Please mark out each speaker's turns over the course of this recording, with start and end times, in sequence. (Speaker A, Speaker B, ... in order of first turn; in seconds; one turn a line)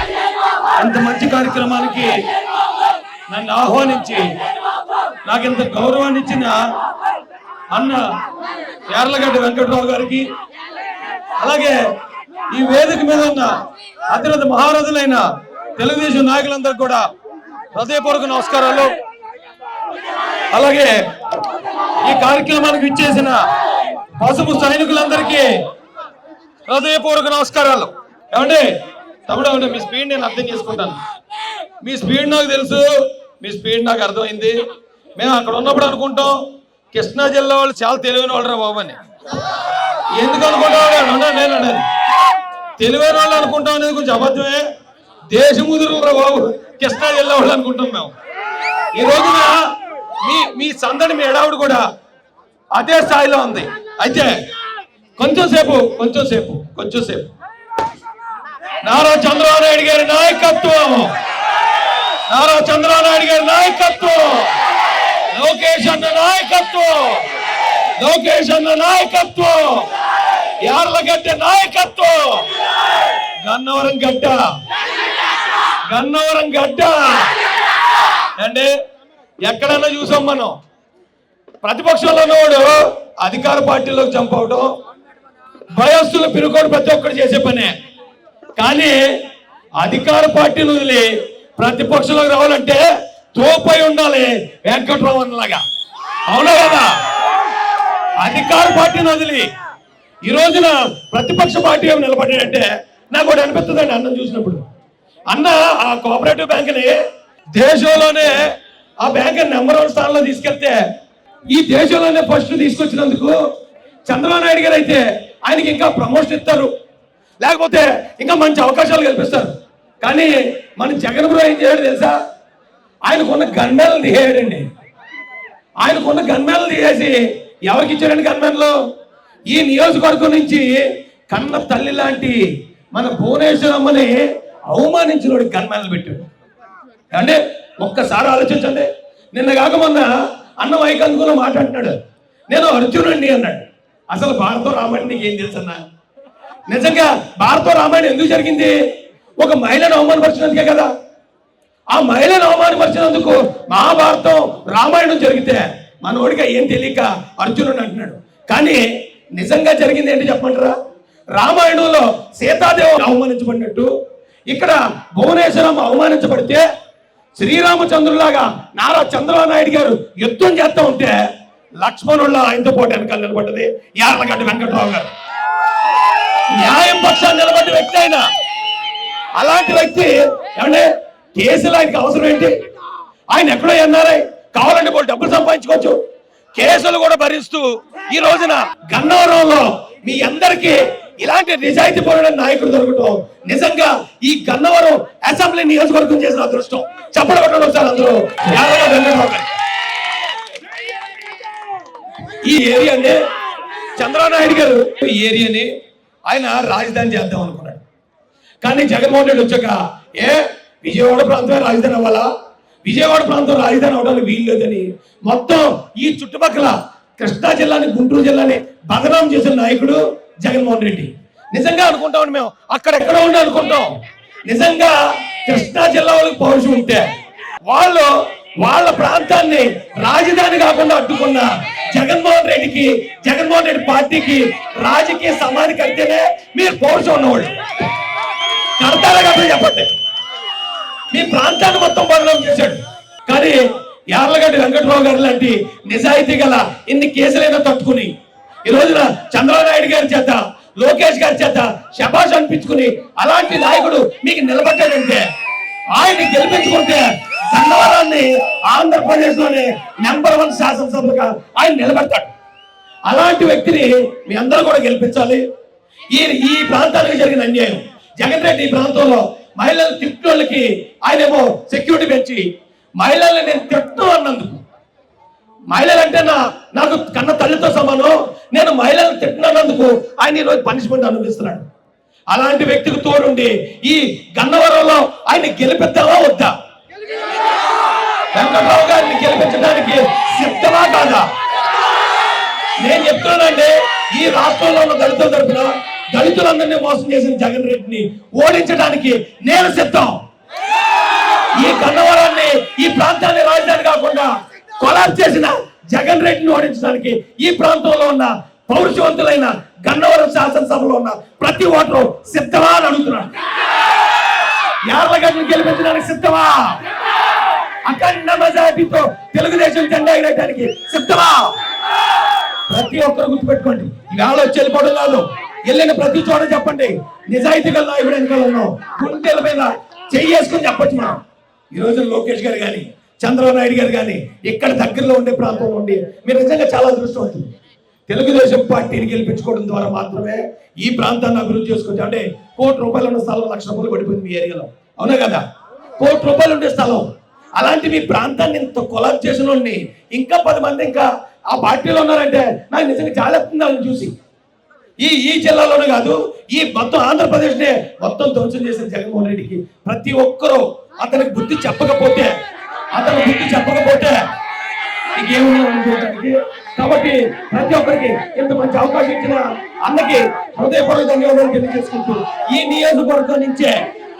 Speaker A: 0.8-2.1
Speaker A: 3.3-4.2
Speaker A: 5.2-6.6
Speaker A: 7.7-8.1
Speaker A: 8.9-10.3
Speaker A: 11.4-11.8
Speaker A: 12.5-17.1
Speaker A: 17.7-18.9
Speaker A: 20.5-21.0
Speaker A: 22.0-23.4
Speaker A: 24.2-25.6
Speaker A: 26.7-31.0
Speaker A: 31.8-34.6
Speaker A: 35.2-39.0
Speaker A: 40.1-41.9
Speaker A: 42.8-44.6
Speaker A: 45.3-48.1
Speaker A: 48.9-49.6
Speaker A: 50.2-51.8
Speaker A: 52.7-54.3
Speaker A: 55.2-57.3
Speaker A: 58.8-61.1
Speaker A: 62.3-64.6
Speaker A: 65.3-67.2
Speaker A: 68.0-69.9
Speaker A: 70.6-72.5
Speaker A: 73.4-74.4
Speaker A: 75.9-77.3
Speaker A: 78.4-78.7
Speaker A: 79.4-80.5
Speaker A: 81.6-84.7
Speaker A: 85.7-87.8
Speaker A: 88.6-89.0
Speaker A: 89.8-95.6
Speaker A: 96.3-96.9
Speaker A: 98.2-99.5
Speaker A: 100.2-104.6
Speaker A: 105.3-107.0
Speaker A: 107.5-108.5
Speaker A: 109.0-110.8
Speaker A: 111.5-113.4
Speaker A: 114.0-116.7
Speaker A: 117.4-122.2
Speaker A: 123.1-124.7
Speaker A: 125.8-128.8
Speaker A: 129.5-132.4
Speaker A: 132.9-136.3
Speaker A: 137.1-141.9
Speaker A: 142.5-145.8
Speaker A: 146.7-148.8
Speaker A: 149.4-150.9
Speaker A: 151.9-158.8
Speaker A: 159.3-160.8
Speaker A: 161.3-163.9
Speaker A: 164.5-166.6
Speaker A: 167.3-171.2
Speaker A: 171.8-175.1
Speaker A: 176.6-178.2
Speaker A: 179.4-182.5
Speaker A: 183.3-186.0
Speaker A: 186.6-199.5
Speaker A: 202.4-203.2
Speaker A: 203.9-205.7
Speaker A: 206.3-207.8
Speaker A: 208.6-212.3
Speaker A: 212.8-223.9
Speaker A: 224.5-227.1
Speaker A: 227.7-237.5
Speaker A: 238.8-239.9
Speaker A: 241.1-243.6
Speaker A: 244.1-248.1
Speaker A: 248.7-255.2
Speaker A: 255.9-262.3
Speaker A: 263.1-265.4
Speaker A: 266.1-274.6
Speaker A: 275.7-281.7
Speaker A: 282.3-286.5
Speaker A: 288.3-291.3
Speaker A: 292.8-300.2
Speaker A: 301.5-313.3
Speaker A: 314.9-316.8
Speaker A: 317.9-321.5
Speaker A: 322.7-331.2
Speaker A: 331.7-337.5
Speaker A: 338.1-345.4
Speaker A: 346.0-354.1
Speaker A: 355.0-362.3
Speaker A: 362.9-364.2
Speaker A: 365.1-373.8